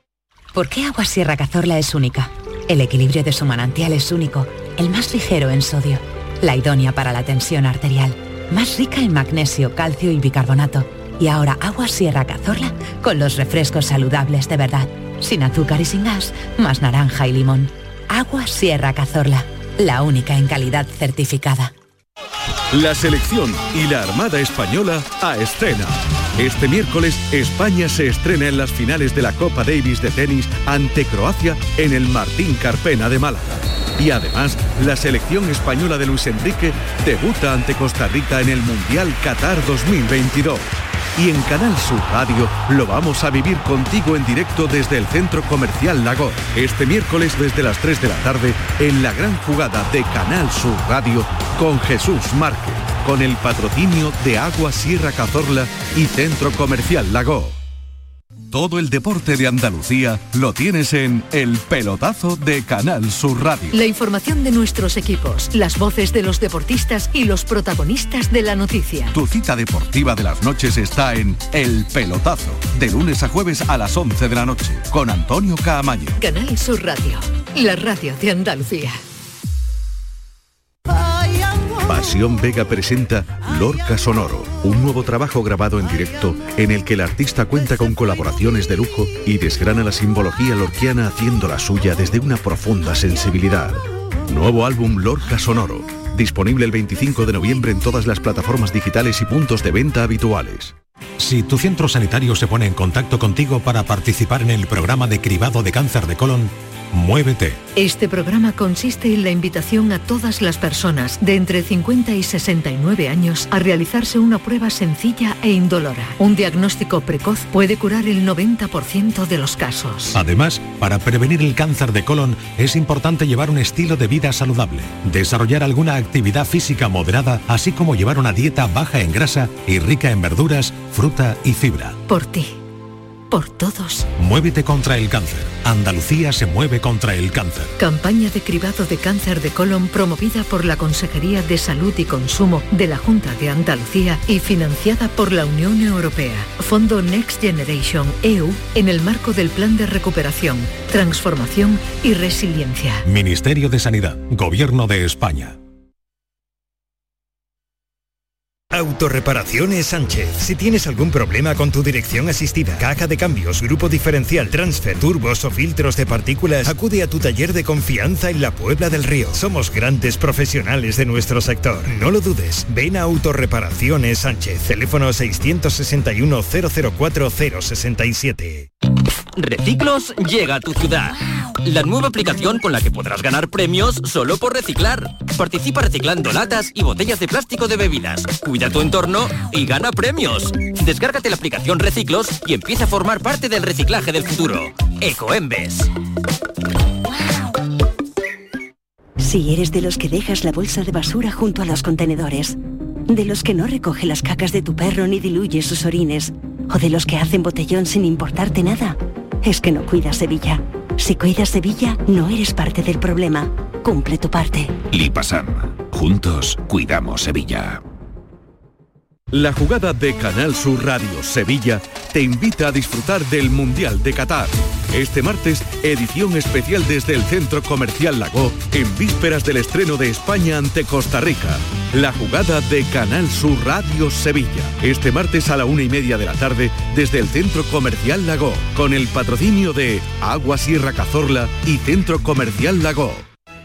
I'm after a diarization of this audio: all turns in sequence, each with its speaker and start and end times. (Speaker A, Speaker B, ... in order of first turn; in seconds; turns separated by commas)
Speaker A: 0.5-21.7, Speaker B: 22.7-57.5, Speaker B: 58.5-63.7, Speaker C: 63.7-69.2, Speaker B: 69.2-76.1, Speaker C: 76.2-79.0, Speaker B: 81.9-100.7, Speaker D: 101.2-107.6, Speaker C: 107.8-120.2, Speaker D: 120.1-131.9, Speaker C: 132.1-132.5, Speaker C: 133.3-134.1, Speaker D: 134.2-137.7, Speaker C: 137.8-153.1, Speaker D: 153.1-155.6, Speaker E: 158.7-178.7, Speaker F: 179.4-195.9, Speaker G: 199.2-202.6, Speaker G: 203.1-214.8, Speaker B: 219.3-243.2